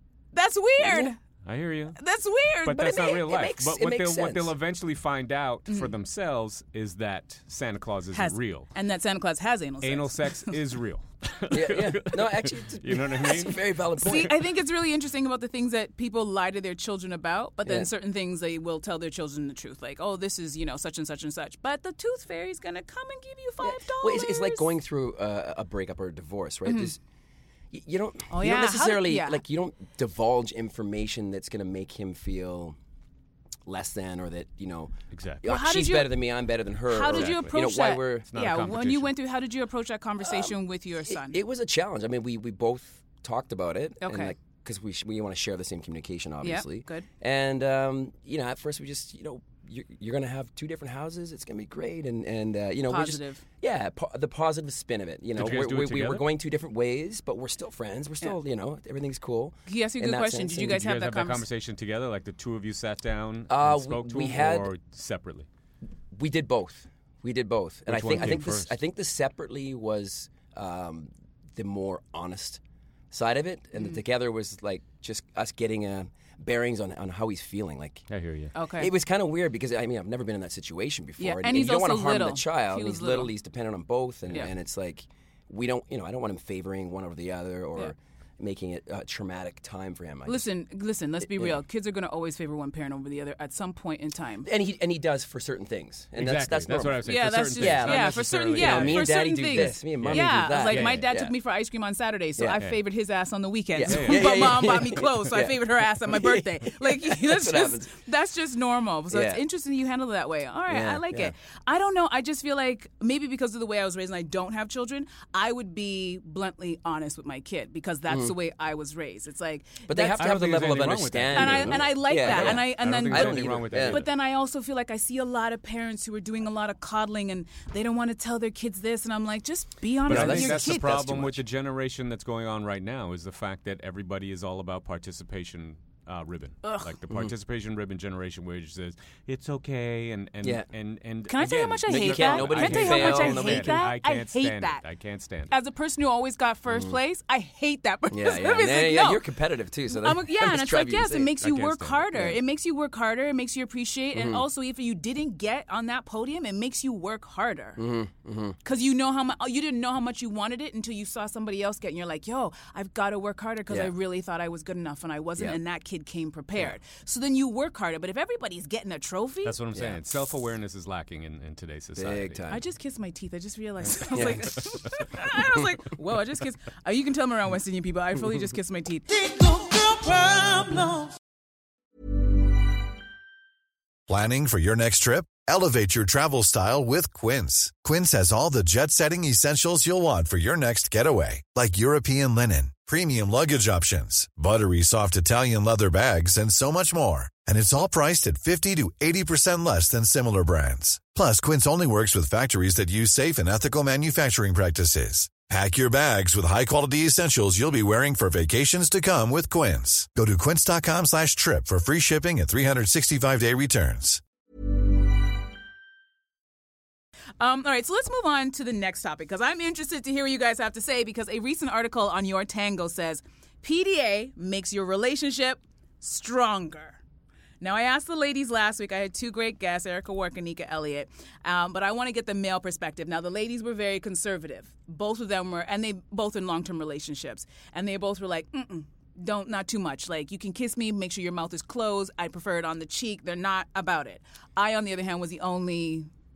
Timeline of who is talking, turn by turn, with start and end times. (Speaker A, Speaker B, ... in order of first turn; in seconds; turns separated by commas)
Speaker A: 0.3-1.2, Speaker B: 0.8-1.1, Speaker C: 1.4-2.0, Speaker A: 2.0-3.2, Speaker C: 2.6-8.7, Speaker B: 2.7-4.5, Speaker A: 8.1-10.6, Speaker C: 9.8-14.2, Speaker B: 11.5-14.3, Speaker A: 14.0-24.7, Speaker B: 23.6-27.0, Speaker A: 26.6-26.9, Speaker B: 27.7-32.8, Speaker A: 28.3-29.4, Speaker B: 33.7-38.3, Speaker C: 35.1-35.5, Speaker A: 35.4-36.2, Speaker A: 36.9-41.4, Speaker C: 37.1-37.6, Speaker C: 38.3-39.1, Speaker B: 40.2-40.5, Speaker B: 41.1-60.8, Speaker A: 44.0-44.3, Speaker A: 46.4-47.1, Speaker A: 52.9-53.4, Speaker C: 55.4-56.2, Speaker A: 59.7-61.4, Speaker C: 60.6-65.5, Speaker B: 63.5-64.7, Speaker B: 66.1-78.0, Speaker C: 67.9-68.7, Speaker C: 78.1-78.5, Speaker A: 78.5-78.9, Speaker B: 78.8-90.5, Speaker A: 81.2-83.3, Speaker A: 90.2-94.5, Speaker B: 91.2-91.6, Speaker B: 94.4-101.3, Speaker C: 96.2-101.1, Speaker A: 97.0-120.2, Speaker B: 103.7-108.0, Speaker C: 103.8-104.5, Speaker B: 109.1-109.4, Speaker B: 110.7-111.3, Speaker B: 118.1-118.3, Speaker B: 119.9-124.0, Speaker C: 119.9-124.1, Speaker A: 121.3-130.9, Speaker B: 130.1-131.4, Speaker C: 130.1-145.5, Speaker A: 136.6-136.9, Speaker A: 141.3-144.8, Speaker B: 141.9-143.8, Speaker A: 145.5-149.2, Speaker B: 146.7-146.9, Speaker B: 148.1-151.3, Speaker A: 149.9-157.8, Speaker C: 151.4-152.3, Speaker B: 154.1-154.4, Speaker B: 157.8-158.6, Speaker A: 158.6-169.6, Speaker C: 169.4-172.4, Speaker B: 169.7-170.0, Speaker B: 171.9-172.6, Speaker A: 172.5-179.1, Speaker B: 174.1-174.6, Speaker D: 179.1-181.2, Speaker E: 184.1-214.2, Speaker A: 217.4-227.0, Speaker A: 227.6-246.1